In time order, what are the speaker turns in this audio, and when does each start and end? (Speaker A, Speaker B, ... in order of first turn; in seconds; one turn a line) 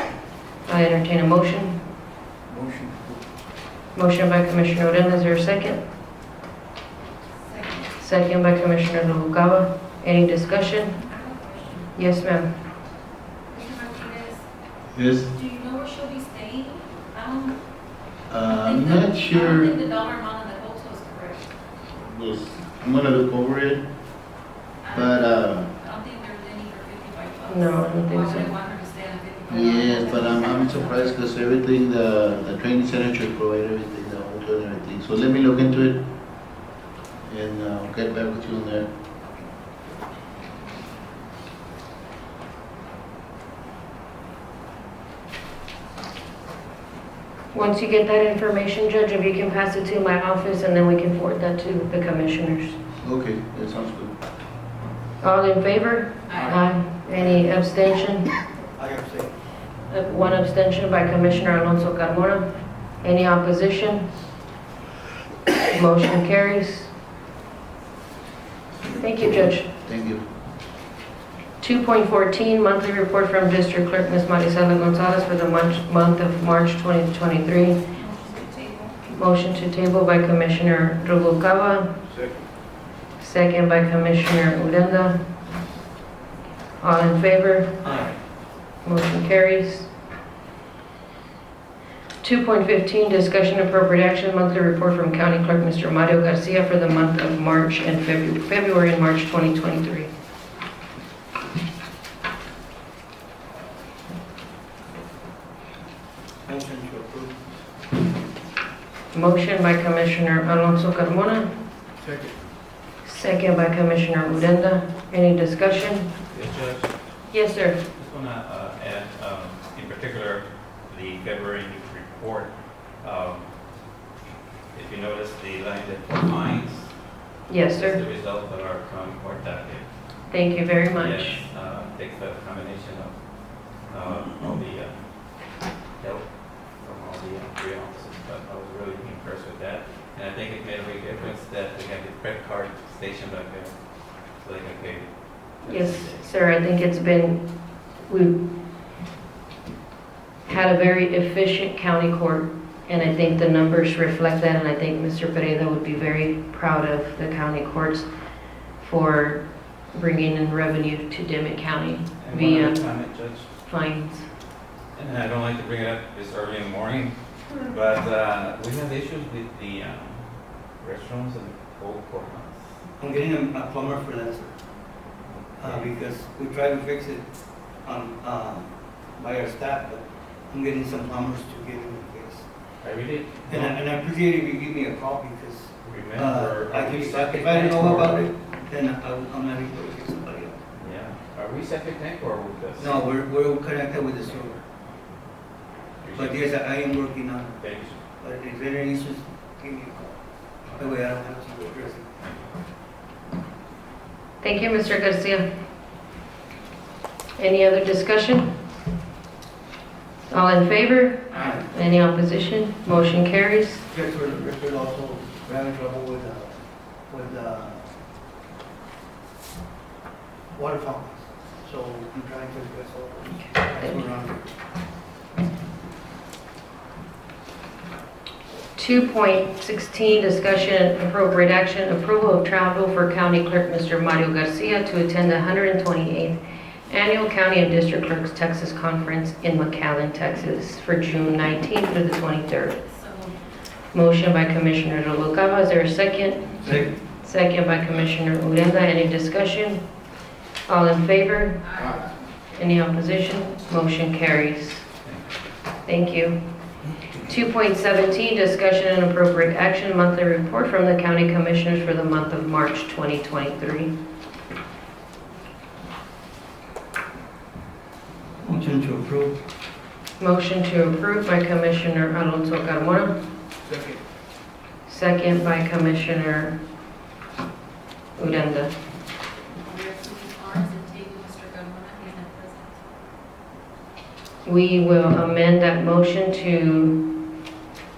Speaker A: 0.7-1.8
Speaker B: 2.5-3.2
Speaker A: 3.9-5.8
Speaker C: 7.4-7.9
Speaker A: 8.0-11.0
Speaker C: 10.9-11.9
Speaker A: 11.9-12.5
Speaker C: 13.5-14.4
Speaker D: 14.9-15.3
Speaker C: 15.3-17.6
Speaker D: 18.3-19.8
Speaker C: 18.5-21.5
Speaker D: 21.9-23.9
Speaker C: 24.8-25.2
Speaker D: 24.9-25.7
Speaker C: 25.8-31.1
Speaker A: 27.5-28.5
Speaker D: 29.5-36.0
Speaker D: 37.2-38.9
Speaker A: 47.5-52.8
Speaker D: 53.0-54.1
Speaker A: 55.2-58.3
Speaker B: 58.8-59.3
Speaker A: 59.9-62.5
Speaker A: 63.0-64.1
Speaker A: 65.7-66.9
Speaker A: 68.9-69.7
Speaker D: 69.3-70.2
Speaker A: 71.6-77.8
Speaker C: 78.0-79.0
Speaker A: 79.1-81.9
Speaker A: 83.2-85.2
Speaker A: 86.8-87.8
Speaker B: 87.8-88.2
Speaker A: 88.8-89.9
Speaker A: 92.2-100.1
Speaker B: 106.4-107.5
Speaker A: 109.1-111.5
Speaker A: 113.0-116.1
Speaker E: 116.3-116.9
Speaker A: 117.3-117.8
Speaker E: 117.9-123.5
Speaker E: 124.7-126.9
Speaker A: 127.5-128.0
Speaker E: 127.7-129.9
Speaker A: 130.3-131.4
Speaker E: 130.9-133.2
Speaker E: 133.8-135.1
Speaker E: 136.0-146.2
Speaker A: 145.6-147.4
Speaker A: 148.1-148.4
Speaker A: 150.5-158.1
Speaker A: 158.8-162.8
Speaker E: 162.2-163.5
Speaker A: 163.7-164.2
Speaker E: 164.9-172.7
Speaker B: 173.0-174.5
Speaker E: 175.3-175.9
Speaker B: 175.6-177.2
Speaker B: 177.8-182.4
Speaker E: 182.8-183.7
Speaker B: 183.5-190.6
Speaker E: 185.8-188.2
Speaker E: 190.8-193.0
Speaker B: 192.8-194.6
Speaker E: 196.0-196.3
Speaker B: 196.2-197.6
Speaker E: 197.6-198.0
Speaker B: 198.2-200.2
Speaker B: 200.7-202.2
Speaker A: 204.4-205.4
Speaker A: 207.4-208.5
Speaker A: 210.3-213.8
Speaker B: 211.3-211.7
Speaker B: 213.9-216.6
Speaker B: 217.1-217.9
Speaker B: 220.5-224.4
Speaker A: 223.4-223.9
Speaker A: 228.8-242.8
Speaker C: 242.8-243.3
Speaker A: 243.9-246.6
Speaker B: 246.6-246.9
Speaker A: 247.1-249.8
Speaker A: 250.7-251.9
Speaker C: 251.6-252.1
Speaker A: 252.5-254.8
Speaker E: 255.0-255.3
Speaker A: 255.8-256.4
Speaker A: 257.2-263.9
Speaker B: 268.4-269.4
Speaker A: 270.2-273.1
Speaker A: 274.9-276.5
Speaker A: 278.1-278.7
Speaker C: 279.6-282.7
Speaker A: 284.4-287.1